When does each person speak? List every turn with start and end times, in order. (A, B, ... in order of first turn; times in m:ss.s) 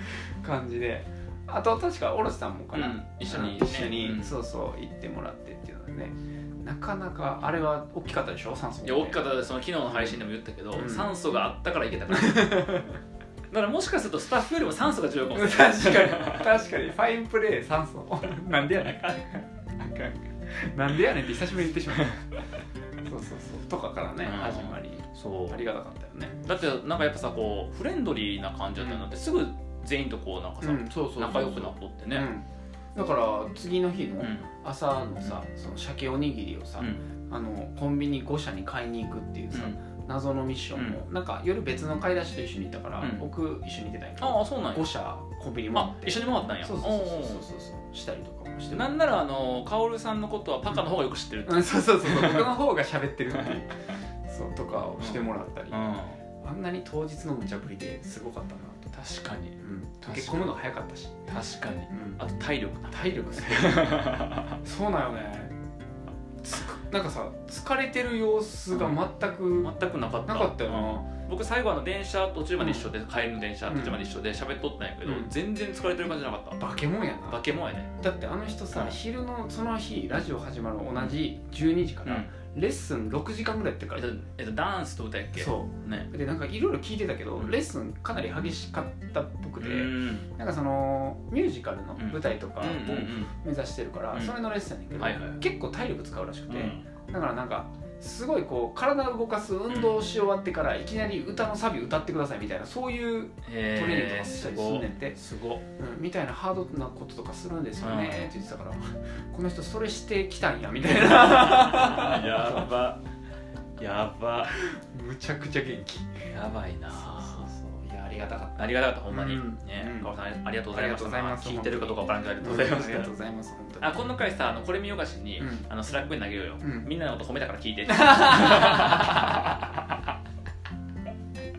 0:00.4-0:09.2 A
0:02.7-0:04.3 B
0:08.8-0:12.7 B
0:09.8-0:10.2 A
0:10.7-0:11.1 A
0:12.1-0:12.9 A
0:13.5-0:16.5 B
0:15.3-0:19.0 A
0:18.7-0:20.3 B
0:20.6-0:22.2 A
0:23.0-0:26.4 A
0:24.2-0:25.6 B
0:26.4-0:32.3 B
0:28.8-0:29.0 A
0:30.6-0:49.0 A
0:34.2-0:34.5 B
0:39.5-0:39.8 B
0:40.7-0:41.0 B
0:43.0-0:43.2 B
0:44.2-0:44.9 B
0:45.7-0:47.4 B
0:48.7-0:52.5 B
0:51.4-0:53.7 A
0:54.3-0:55.8 A
0:55.0-0:56.2 B
0:56.4-0:58.9 A
0:58.9-1:00.5 B
0:59.6-1:01.2 A
1:01.3-1:04.6 B
1:01.9-1:02.2 A
1:02.9-1:05.5 A
1:06.4-1:09.7 A
1:09.6-1:16.6 B
1:10.2-1:11.0 A
1:12.6-1:12.8 A
1:13.7-1:14.1 A
1:15.0-1:15.3 A
1:16.6-1:17.4 A
1:17.3-1:17.9 B
1:18.0-1:24.1 A
1:22.0-1:22.3 B
1:23.9-1:26.1 B
1:25.3-1:45.2 A
1:29.6-1:30.3 B
1:32.0-1:33.3 B
1:35.0-1:35.4 B
1:36.5-1:36.8 B
1:39.7-1:40.0 B
1:43.4-1:45.6 B
1:45.8-1:52.7 A
1:47.8-1:48.3 B
1:50.9-1:53.0 B
1:53.8-1:54.5 B
1:54.5-1:56.3 A
1:56.3-1:57.5 B
1:57.0-2:00.1 A
1:58.6-2:03.1 B
2:00.7-2:03.9 A
2:03.8-2:10.1 B
2:05.4-2:05.7 A
2:06.6-2:06.9 A
2:07.9-2:09.4 A